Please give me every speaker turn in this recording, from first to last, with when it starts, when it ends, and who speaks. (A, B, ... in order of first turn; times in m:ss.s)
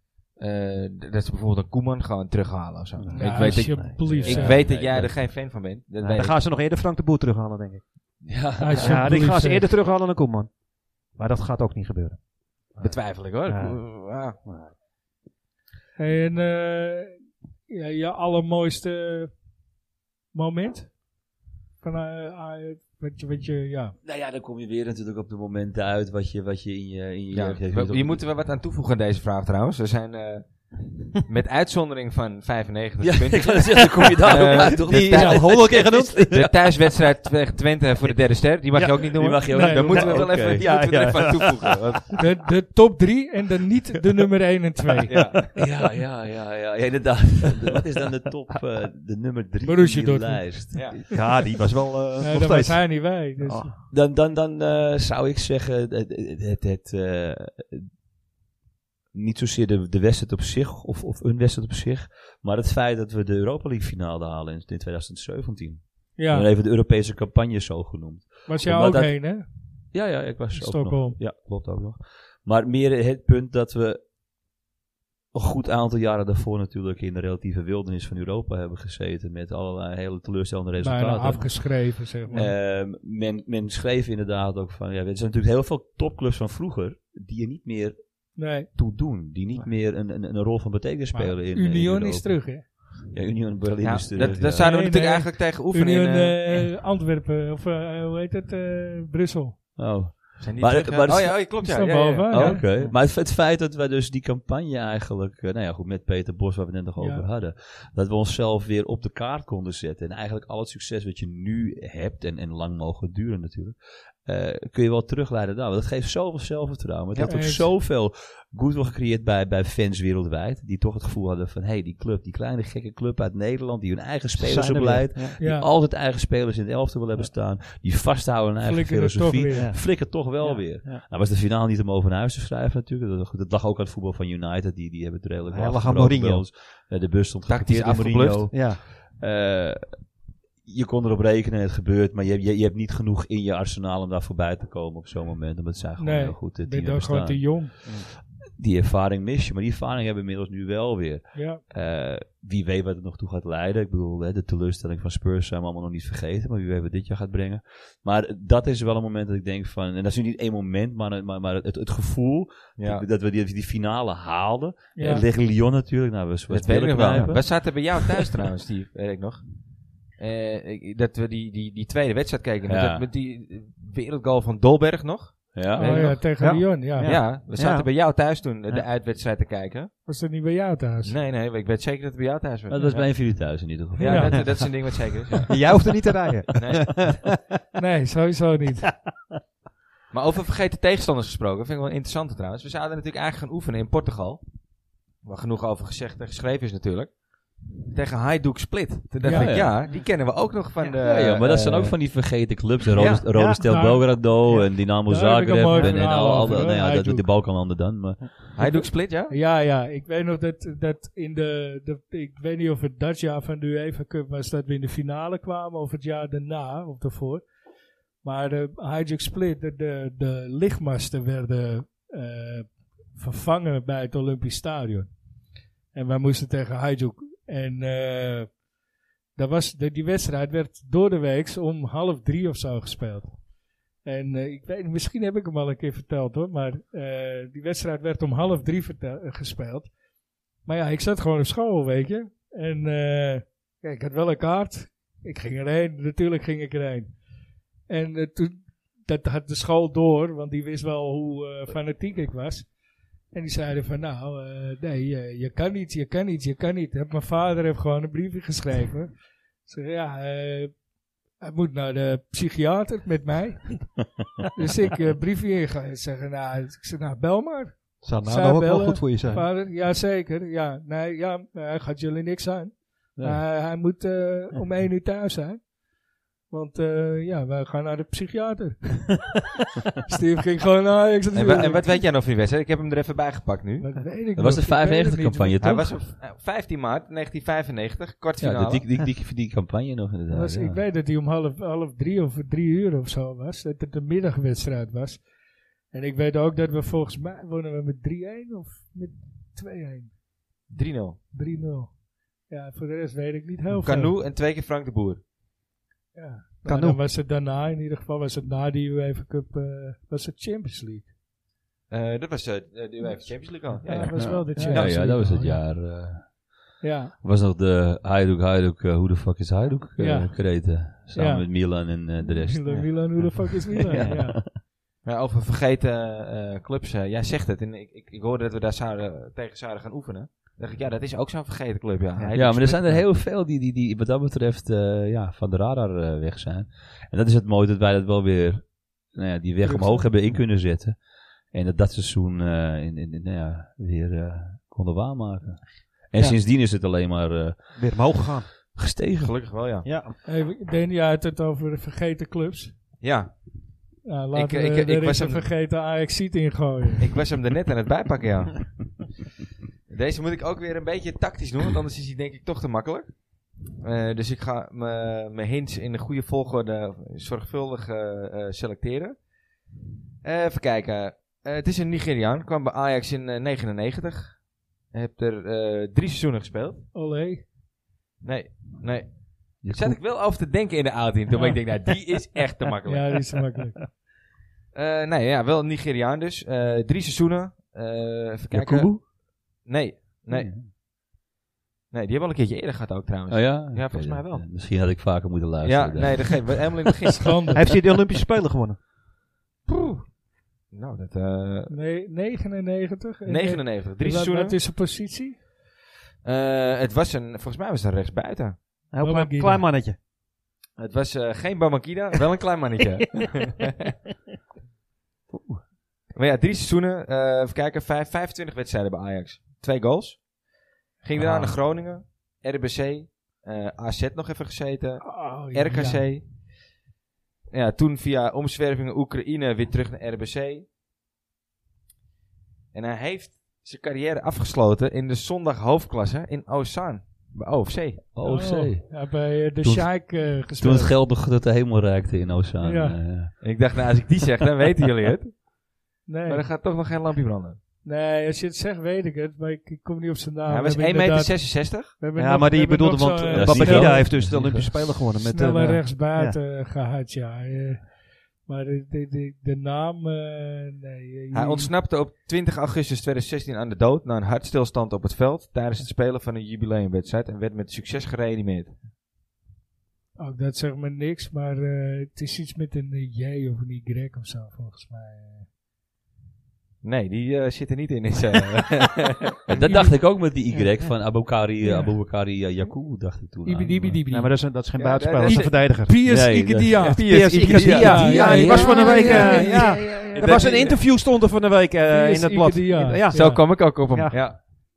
0:00.4-0:06.4 A
0:03.0-0:04.5 B
0:03.1-0:04.6 C
0:04.0-0:05.1 D
0:06.0-0:07.9 B
0:08.3-0:09.1 D
0:08.6-0:09.7 C
0:08.7-0:10.5 B
0:11.1-0:12.2 B
0:12.8-0:14.4 A
0:13.4-0:14.7 B
0:16.0-0:17.2 C
0:17.7-0:19.3 C
0:20.3-0:21.0 C
0:21.8-0:24.0 C
0:24.0-0:28.2 D
0:27.3-0:42.2 A
0:33.0-0:36.5 D
0:34.4-0:36.5 B
0:38.7-0:41.6 B
0:38.9-0:41.1 D
0:39.5-0:40.0 C
0:42.2-0:45.3 C
0:45.1-0:45.4 A
0:45.6-0:51.1 D
0:49.6-0:50.8 C
0:50.7-0:51.0 A
0:51.1-0:53.7 B
0:52.2-0:53.7 C
0:53.9-0:57.9 D
0:59.1-1:09.4 D
1:06.2-1:06.5 C
1:08.5-1:09.4 C
1:09.9-1:14.0 D
1:10.5-1:11.2 C
1:15.3-1:34.7 D
1:20.8-1:22.5 C
1:28.4-1:28.7 C
1:31.1-1:32.6 C
1:33.8-1:36.7 A
1:34.5-1:39.6 C
1:39.8-1:41.7 D
1:40.4-1:42.9 A
1:41.6-1:42.7 C
1:42.3-2:47.7 D
1:47.0-1:47.2 C
1:57.2-1:57.7 C
2:04.4-2:05.4 B
2:05.4-2:05.7 C
2:08.6-2:09.8 C
2:09.5-2:11.0 B
2:15.5-2:16.5 B
2:17.5-2:18.5 A
2:18.5-2:18.8 B
2:26.0-2:27.7 C
2:31.3-2:31.6 C
2:42.8-2:43.0 A
2:44.9-2:45.2 C
2:46.5-2:56.2 A
2:47.0-2:47.4 B
2:52.7-2:53.0 D
2:55.5-2:56.2 D
2:55.7-2:57.1 C
2:56.4-2:57.9 B
2:57.0-2:59.9 A
3:00.0-3:01.2 C
3:01.0-3:05.7 A
3:02.7-3:04.7 D
3:04.0-3:04.4 C
3:05.5-3:07.3 B
3:06.5-3:07.1 A
3:07.8-3:09.0 C
3:10.1-3:22.0 A
3:19.2-3:19.7 C
3:19.3-3:19.8 D
3:21.0-3:28.5 D
3:23.0-3:23.2 A
3:23.0-3:23.6 B
3:23.5-3:27.3 C
3:25.7-3:26.0 B
3:28.5-3:29.3 A
3:28.7-3:37.4 C
3:38.2-3:45.1 C
3:45.9-3:48.6 C
3:49.3-3:53.4 C
3:54.0-3:59.9 C
4:00.6-4:07.2 C
4:07.9-4:12.7 C
4:13.3-4:20.8 C
4:21.4-4:35.7 C
4:28.0-4:29.4 B
4:33.2-4:33.4 D
4:36.5-4:39.4 C
4:40.0-4:42.0 C
4:41.3-4:44.0 A
4:43.8-4:45.8 C
4:44.3-4:46.0 D
4:45.6-4:48.9 A
4:48.4-4:50.8 D
4:50.3-4:55.3 C
4:55.9-5:00.2 C
5:00.7-5:01.2 A
5:01.3-5:04.1 C
5:03.8-5:05.2 A
5:06.1-5:11.1 C
5:06.6-5:07.0 B
5:11.9-5:14.9 A
5:13.8-5:15.6 C
5:14.0-5:14.9 B
5:14.1-5:24.5 D
5:16.8-5:17.1 C
5:20.0-5:24.4 C
5:25.0-5:33.0 A
5:32.2-5:33.0 B
5:32.3-5:48.2 D
5:39.6-5:40.1 C
5:47.7-5:48.5 B
5:48.7-5:49.5 D
5:49.2-5:49.8 A
5:49.8-5:50.2 B
5:50.2-5:52.8 C
5:53.0-5:53.4 A
5:54.0-5:57.1 C
5:54.3-5:55.5 A
5:57.0-5:58.8 A
5:59.9-6:09.2 A
6:10.2-6:16.9 A
6:16.9-6:17.5 C
6:18.2-6:23.3 A
6:19.6-6:20.0 D
6:22.8-6:24.0 C
6:24.7-6:30.6 A
6:28.5-6:29.0 D
6:30.3-6:30.7 D
6:31.9-6:34.5 A
6:33.3-6:36.7 D
6:35.6-6:37.3 A
6:37.2-6:37.6 C
6:37.5-6:38.8 B
6:39.6-6:40.2 A
6:40.7-6:41.7 A
6:41.7-6:45.4 C
6:43.2-6:44.6 A
6:46.2-6:48.6 A
6:48.9-6:50.0 B
6:49.0-6:49.7 C
6:50.8-6:53.6 A
6:55.3-6:55.6 D
6:56.1-7:00.3 A
7:01.0-7:06.2 A
7:01.2-7:01.6 D
7:05.0-7:06.1 C
7:07.5-7:10.6 A
7:12.7-7:18.0 A
7:18.1-7:23.9 D
7:18.2-7:21.0 C
7:22.6-7:23.1 C
7:23.4-7:25.5 A
7:26.0-7:26.4 C
7:26.2-7:27.6 A
7:27.8-7:41.7 C
7:30.5-7:31.9 A
7:32.2-7:36.4 B
7:33.3-7:34.7 D
7:41.3-7:48.8 A
7:50.2-7:55.5 C
7:56.8-7:59.2 A
7:59.5-8:04.0 D
7:59.6-7:59.9 C
8:01.6-8:02.0 C
8:03.4-8:04.4 C
8:04.1-8:06.2 B
8:04.7-8:05.6 A
8:05.2-8:10.8 C
8:06.0-8:10.4 D
8:06.8-8:10.8 A
8:06.8-8:14.5 B
8:11.9-8:13.4 C
8:13.1-8:14.4 A